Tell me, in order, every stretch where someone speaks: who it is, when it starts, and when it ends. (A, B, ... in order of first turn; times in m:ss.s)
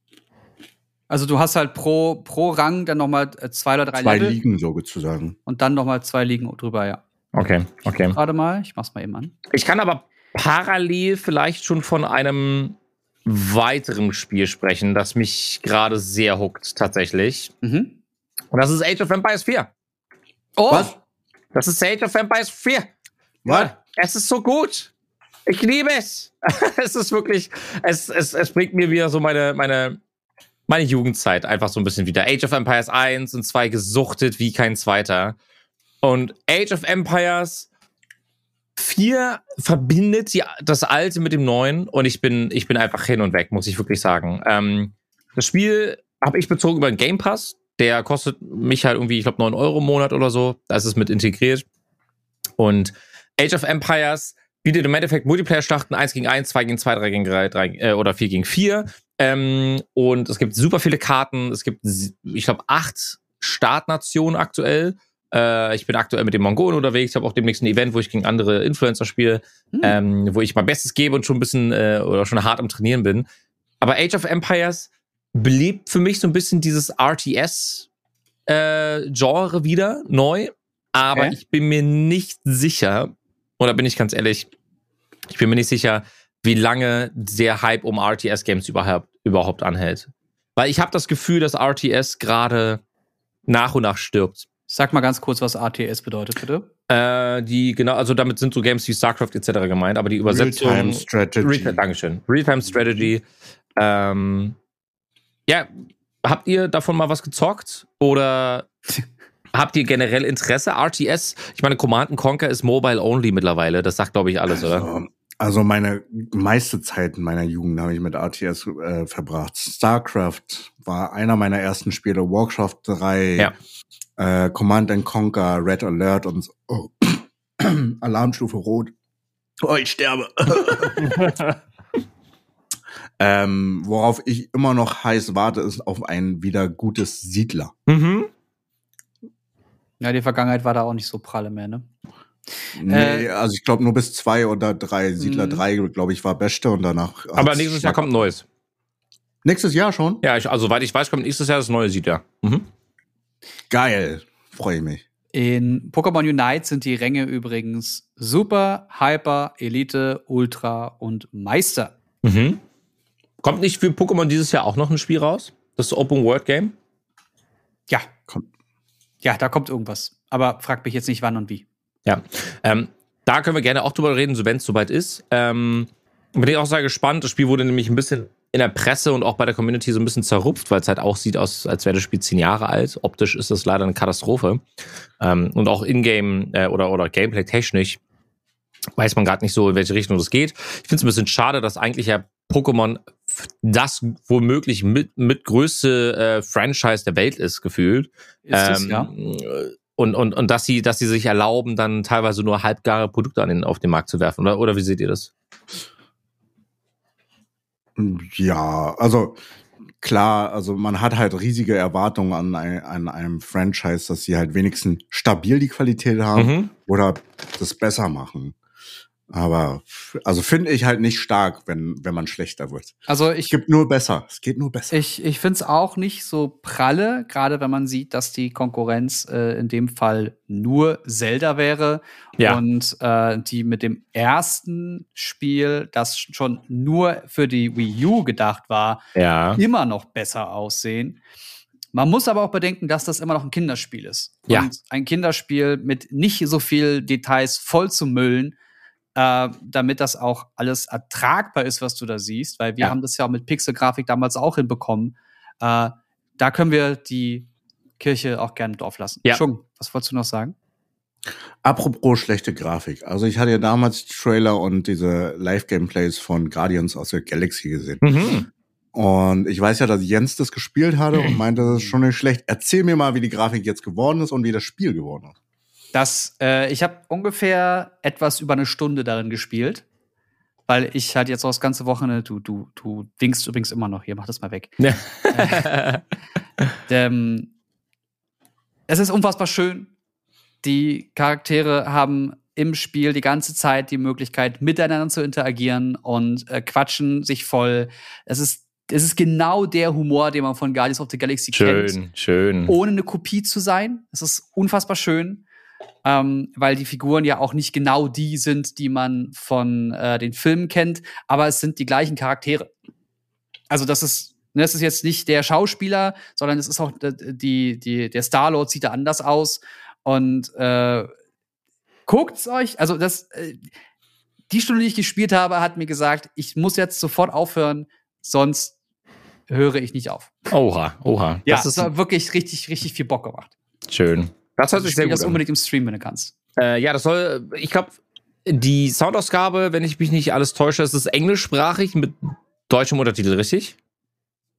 0:01.1-0:04.4 A
0:04.0-0:05.4 B
0:05.4-0:07.0 A
0:07.3-0:08.2 C
0:08.1-0:09.3 A
0:09.5-0:17.5 C
0:17.6-0:18.0 A
0:18.5-0:19.7 C
0:20.6-0:21.0 A
0:20.7-0:20.9 B
0:21.5-0:22.9 C
0:23.4-0:23.7 B
0:23.4-0:24.9 C
0:25.4-0:30.0 C
0:30.7-0:35.4 C
0:36.0-0:37.7 C
0:38.8-0:51.6 C
0:52.6-1:13.3 C
1:09.7-1:10.0 A
1:13.8-1:17.9 C
1:18.5-1:24.5 C
1:25.3-1:32.8 C
1:33.5-1:34.4 C
1:34.7-1:36.7 A
1:36.9-1:43.2 C
1:40.3-1:41.8 B
1:43.8-1:44.6 C
1:46.2-1:48.7 C
1:49.5-1:54.9 C
1:54.5-2:03.5 B
2:04.2-2:08.9 B
2:09.6-2:11.3 B
2:13.2-2:17.7 B
2:17.9-2:18.3 C
2:20.0-2:21.9 A
2:22.8-2:28.3 B
2:22.9-2:23.3 A
2:25.2-2:25.6 A
2:27.4-2:28.4 C
2:29.4-2:30.2 B
2:30.2-2:32.7 C
2:33.7-2:35.0 B
2:35.3-2:41.9 A
2:42.2-2:42.6 C
2:43.4-2:46.7 C
2:49.2-2:51.6 A
2:52.0-3:04.6 C
3:05.2-3:08.0 C
3:09.0-3:25.3 C
3:18.4-3:19.1 A
3:28.0-3:29.4 B
3:30.0-3:38.6 B
3:36.4-3:36.7 C
3:39.3-3:45.0 B
3:43.1-3:43.6 A
3:44.9-3:59.0 A
3:59.1-3:59.6 C
3:59.6-4:01.2 A
4:01.9-4:08.6 A
4:09.2-4:20.6 A
4:21.6-4:28.0 B
4:28.0-4:28.5 C
4:28.9-4:35.4 B
4:35.9-4:39.8 A
4:40.7-4:45.8 A
4:44.8-4:46.0 C
4:46.9-4:47.5 A
4:48.9-4:49.9 A
4:50.6-5:02.0 A
5:01.5-5:02.7 C
5:02.7-5:05.4 A
5:06.0-5:12.7 A
5:13.7-5:21.1 A
5:22.1-5:23.7 A
5:24.5-5:28.8 A
5:29.5-5:30.3 A
5:30.5-5:31.9 C
5:31.4-5:33.5 A
5:33.9-5:35.4 C
5:34.8-5:36.3 A
5:36.6-5:43.7 C